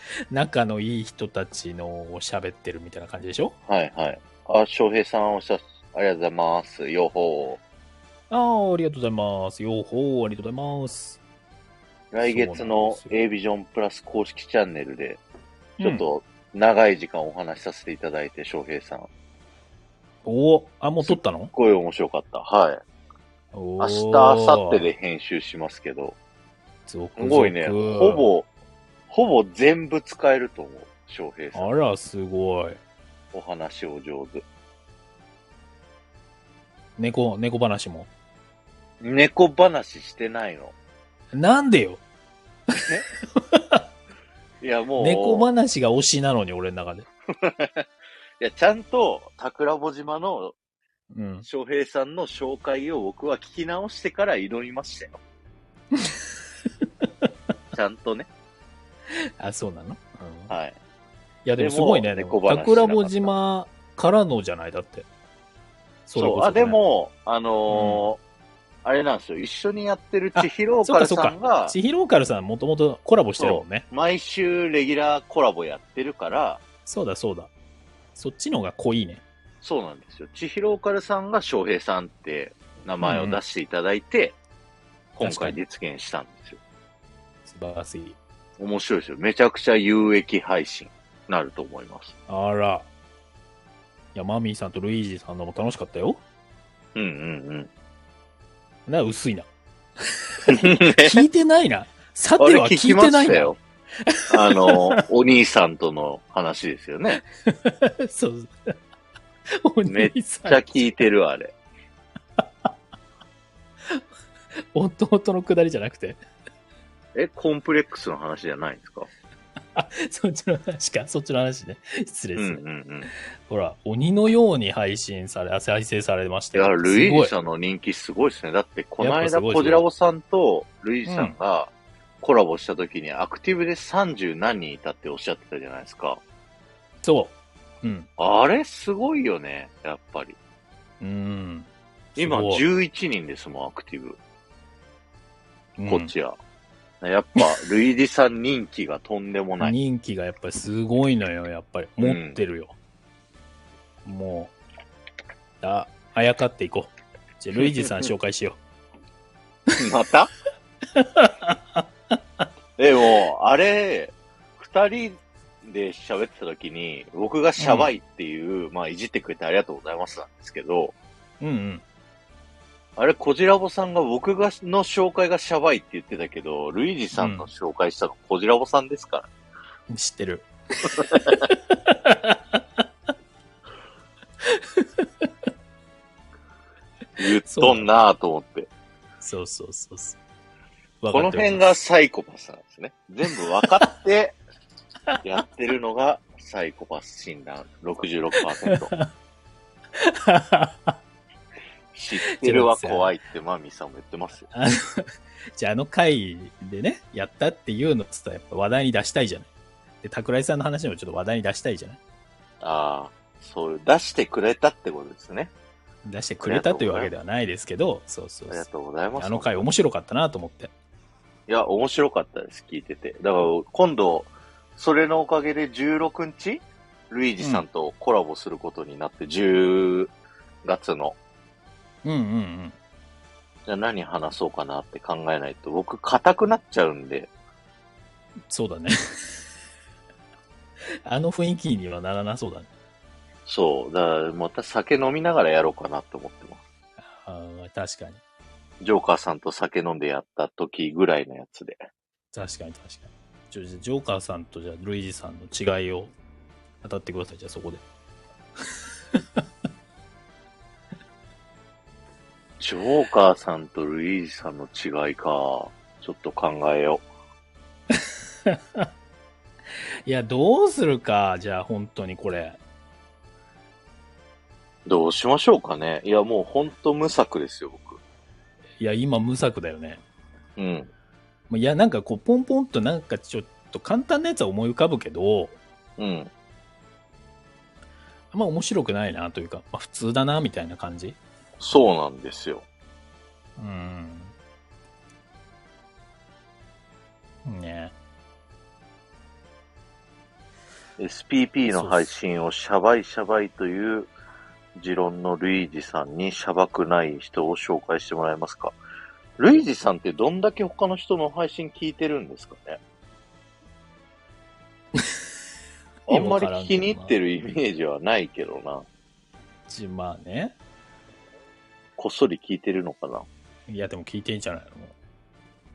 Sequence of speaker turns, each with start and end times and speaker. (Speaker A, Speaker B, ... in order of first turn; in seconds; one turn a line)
Speaker A: 0.3-3.5
Speaker B: 3.7-7.6
Speaker A: 8.3-11.2
Speaker B: 12.1-15.2
Speaker A: 12.2-13.2
Speaker A: 15.8-16.0
Speaker B: 15.8-19.1
Speaker A: 20.2-21.5
Speaker B: 21.0-22.8
Speaker A: 23.5-24.9
Speaker B: 23.8-26.2
Speaker A: 26.9-28.3
Speaker B: 27.2-28.5
Speaker B: 29.1-31.7
Speaker A: 31.5-32.8
Speaker B: 33.3-34.4
Speaker A: 37.0-38.1
Speaker B: 39.0-40.7
Speaker A: 41.3-42.0
Speaker A: 42.7-43.8
Speaker B: 44.6-45.5
Speaker A: 45.0-47.1
Speaker B: 47.3-47.8
Speaker B: 48.4-50.5
Speaker A: 51.1-51.5
Speaker B: 51.4-55.2
Speaker A: 55.9-56.2
Speaker A: 57.0-57.3
Speaker B: 57.7-58.3
Speaker A: 59.4-60.5
Speaker B: 60.5-60.8
Speaker A: 61.4-65.1
Speaker B: 61.6-63.3
Speaker A: 66.1-66.8
Speaker B: 66.1-68.2
Speaker A: 67.7-68.1
Speaker B: 68.8-71.8
Speaker A: 70.3-73.8
Speaker B: 73.4-76.6
Speaker A: 76.8-77.5
Speaker A: 78.2-79.2
Speaker B: 79.6-84.3
Speaker A: 83.0-83.4
Speaker B: 85.2-86.6
Speaker A: 85.2-85.6
Speaker A: 87.5-88.2
Speaker B: 88.6-92.1
Speaker A: 92.3-92.9
Speaker A: 94.1-96.2
Speaker B: 96.9-97.7
Speaker A: 98.9-99.5
Speaker A: 100.3-105.0
Speaker B: 100.5-101.2
Speaker B: 102.4-103.6
Speaker B: 104.3-107.2
Speaker A: 107.5-108.7
Speaker A: 109.5-111.1
Speaker B: 109.8-111.5
Speaker A: 112.4-112.7
Speaker A: 114.7-116.2
Speaker B: 117.1-119.1
Speaker A: 119.7-122.6
Speaker B: 122.3-123.1
Speaker A: 123.5-127.3
Speaker B: 126.5-136.2
Speaker A: 129.0-129.8
Speaker A: 131.1-131.3
Speaker A: 137.0-138.1
Speaker B: 138.2-140.4
Speaker A: 141.0-142.6
Speaker B: 142.2-144.2
Speaker A: 145.8-146.1
Speaker B: 145.9-146.4
Speaker B: 147.0-149.7
Speaker A: 149.6-152.7
Speaker B: 152.0-152.4
Speaker A: 154.0-154.5
Speaker A: 155.6-158.6
Speaker B: 159.8-160.3
Speaker A: 160.9-161.8
Speaker B: 162.8-170.9
Speaker A: 167.6-167.9
Speaker A: 171.4-171.8
Speaker B: 173.0-179.3
Speaker A: 177.1-177.5
Speaker A: 179.9-182.6
Speaker A: 184.4-185.3
Speaker B: 187.2-188.7
Speaker A: 187.4-187.9
Speaker A: 189.2-190.2
Speaker A: 191.0-191.7
Speaker B: 191.1-194.4
Speaker B: 195.2-198.9
Speaker A: 198.7-199.1
Speaker A: 200.0-200.9
Speaker B: 201.9-204.5
Speaker A: 202.3-203.1
Speaker A: 204.5-209.5
Speaker A: 210.0-212.0
Speaker B: 212.6-215.5
Speaker A: 216.0-220.7
Speaker B: 216.4-217.1
Speaker B: 218.5-219.7
Speaker B: 221.5-231.2
Speaker A: 227.4-227.6
Speaker A: 232.0-232.8
Speaker B: 233.7-237.3
Speaker A: 238.5-239.4
Speaker A: 241.0-242.7
Speaker B: 243.4-246.6
Speaker A: 247.1-248.2
Speaker B: 248.8-251.8
Speaker A: 252.3-256.1
Speaker A: 256.8-257.8
Speaker B: 262.6-267.0
Speaker A: 267.9-268.9
Speaker A: 270.1-272.6
Speaker B: 274.9-278.0
Speaker A: 278.8-280.0
Speaker B: 280.6-280.9
Speaker A: 281.5-285.6
Speaker B: 286.0-286.3
Speaker A: 288.3-291.2
Speaker B: 291.6-292.6
Speaker A: 293.6-294.3
Speaker A: 297.4-297.9
Speaker B: 301.0-304.1
Speaker A: 301.7-302.1
Speaker B: 304.8-308.8
Speaker B: 309.4-312.8
Speaker A: 316.1-317.1
Speaker B: 316.1-318.9
Speaker A: 319.7-320.5
Speaker B: 322.0-323.2
Speaker A: 323.7-324.9